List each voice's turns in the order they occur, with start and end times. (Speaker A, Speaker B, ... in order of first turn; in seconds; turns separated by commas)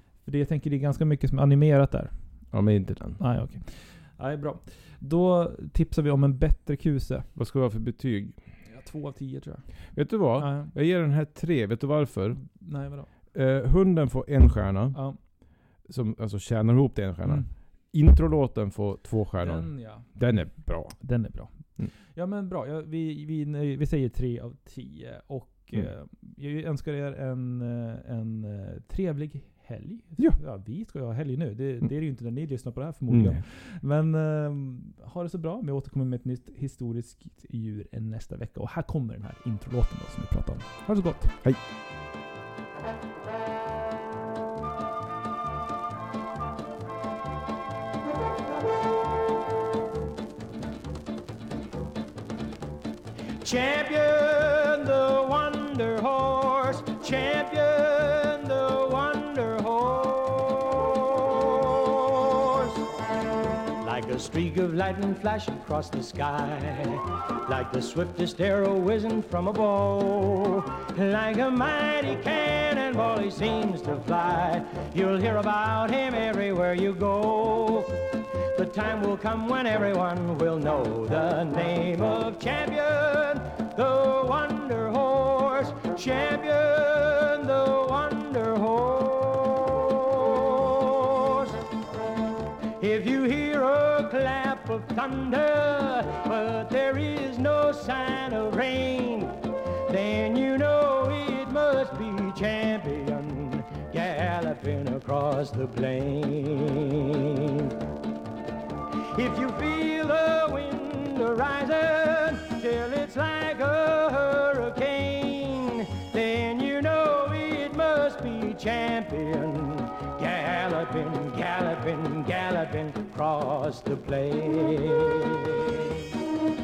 Speaker A: 0.2-2.1, Speaker B: 2.5-3.2, Speaker A: 3.2-7.3, Speaker B: 7.3-8.4, Speaker A: 8.6-9.6, Speaker B: 9.9-12.4, Speaker A: 10.4-10.7, Speaker A: 12.4-13.1, Speaker B: 13.3-15.0, Speaker B: 15.9-21.0, Speaker A: 19.4-20.2, Speaker A: 20.9-41.3, Speaker B: 33.1-33.4, Speaker C: 53.4-62.9, Speaker C: 63.8-91.6, Speaker C: 92.8-107.8, Speaker C: 109.1-126.1